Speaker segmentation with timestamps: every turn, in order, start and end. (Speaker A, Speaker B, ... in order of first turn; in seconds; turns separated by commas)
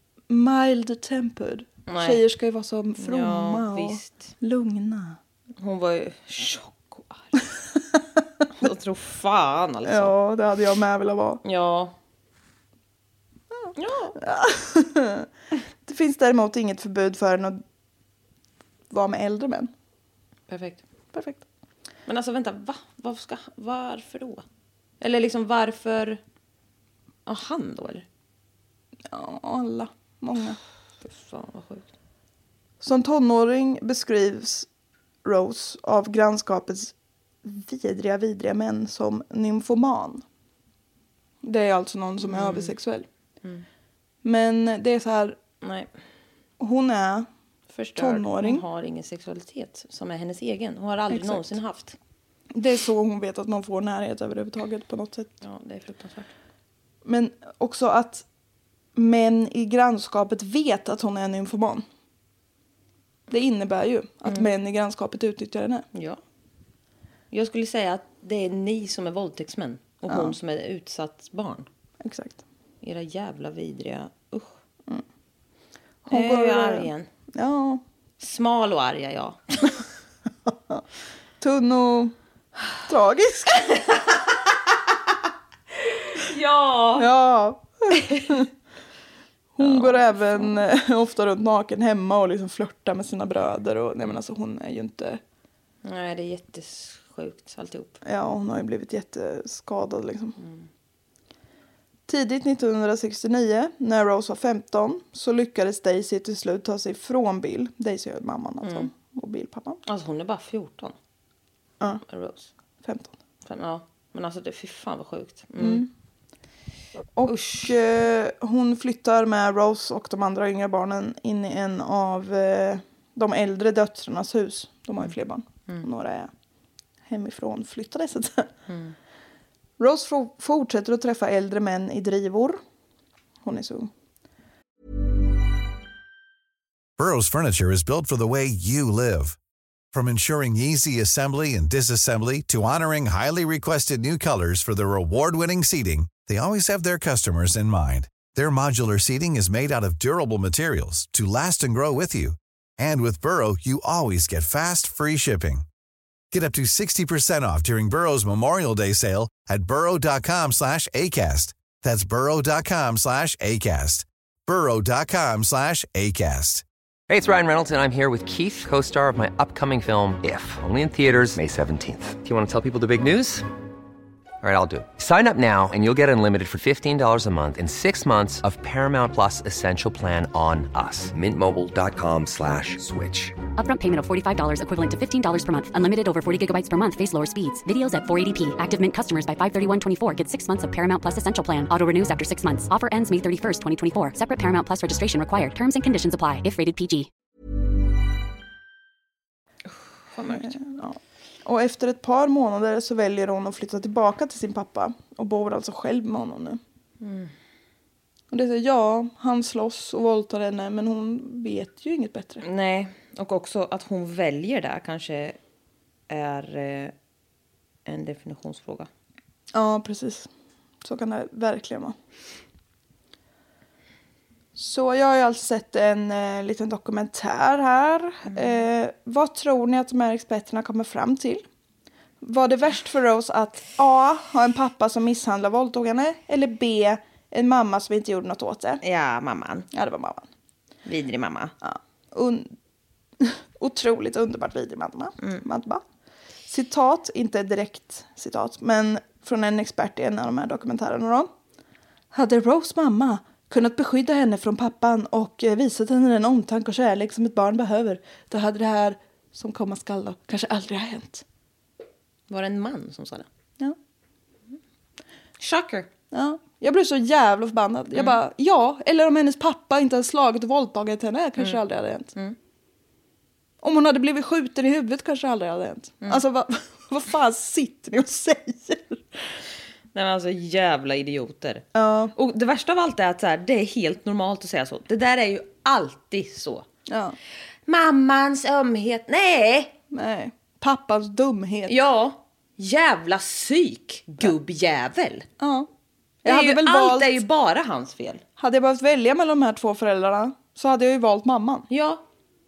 Speaker A: 0.3-5.2, Speaker B: 1.9-2.2, Speaker B: 3.0-4.3, Speaker B: 5.6-7.4, Speaker B: 8.6-10.1, Speaker A: 9.8-11.4, Speaker B: 11.4-11.9, Speaker A: 13.6-15.3, Speaker B: 13.8-14.2, Speaker A: 15.8-17.6, Speaker A: 18.9-19.7, Speaker B: 20.5-20.8, Speaker A: 21.1-21.4, Speaker B: 22.1-24.4, Speaker B: 25.0-26.2, Speaker B: 27.3-28.1, Speaker A: 29.1-30.6, Speaker B: 31.1-31.9, Speaker A: 32.8-34.7, Speaker A: 35.2-40.2, Speaker A: 41.4-43.1, Speaker B: 42.2-42.8, Speaker A: 44.2-45.4, Speaker B: 45.6-45.9, Speaker A: 46.6-47.3, Speaker B: 47.7-52.0, Speaker A: 48.0-48.6, Speaker A: 51.1-51.6, Speaker A: 52.5-55.3, Speaker B: 55.4-56.3, Speaker A: 57.0-58.2, Speaker A: 59.0-61.9, Speaker A: 63.3-65.9, Speaker B: 65.9-66.2, Speaker B: 67.3-71.7, Speaker A: 70.1-70.3, Speaker A: 72.0-72.4, Speaker B: 72.8-74.5, Speaker A: 76.1-77.8, Speaker B: 76.1-77.1, Speaker B: 78.2-79.8, Speaker A: 81.4-82.1, Speaker A: 82.9-83.9, Speaker B: 86.0-87.1, Speaker A: 87.0-88.5, Speaker A: 89.5-95.2, Speaker B: 89.6-90.6, Speaker B: 95.8-98.0, Speaker A: 98.0-100.4, Speaker B: 100.4-100.7, Speaker A: 102.1-109.8, Speaker B: 108.6-108.9, Speaker B: 109.9-111.0, Speaker B: 112.1-112.5, Speaker A: 112.8-113.1, Speaker B: 113.5-115.9, Speaker A: 115.6-115.9, Speaker A: 117.2-126.3, Speaker B: 117.3-117.7, Speaker A: 127.1-128.5, Speaker B: 128.7-128.9, Speaker A: 129.8-132.6, Speaker A: 133.4-133.9, Speaker C: 137.0-139.4, Speaker C: 139.9-155.7, Speaker C: 156.3-166.6, Speaker D: 167.1-173.5, Speaker D: 174.4-183.4, Speaker E: 183.6-197.1, Speaker B: 200.1-200.6, Speaker A: 200.3-206.6, Speaker B: 207.0-207.3, Speaker A: 208.3-212.4, Speaker B: 212.4-215.4, Speaker B: 216.1-216.9, Speaker B: 217.9-218.9, Speaker A: 219.5-220.3, Speaker A: 220.8-221.9, Speaker A: 224.6-231.4, Speaker A: 232.2-238.8, Speaker B: 238.8-239.7, Speaker A: 239.7-240.3, Speaker B: 240.9-241.5, Speaker A: 241.6-242.5, Speaker A: 243.2-245.8, Speaker A: 246.5-251.3, Speaker A: 252.1-261.2, Speaker B: 262.3-263.3, Speaker B: 265.4-265.9, Speaker A: 266.1-272.1, Speaker A: 273.6-279.0, Speaker B: 279.9-286.6, Speaker A: 281.8-282.1, Speaker A: 286.9-287.2, Speaker B: 287.7-289.8, Speaker A: 289.9-291.8, Speaker B: 291.7-295.3, Speaker A: 295.4-295.7, Speaker A: 296.2-297.2, Speaker B: 296.3-298.2, Speaker A: 298.4-301.7, Speaker B: 301.7-302.0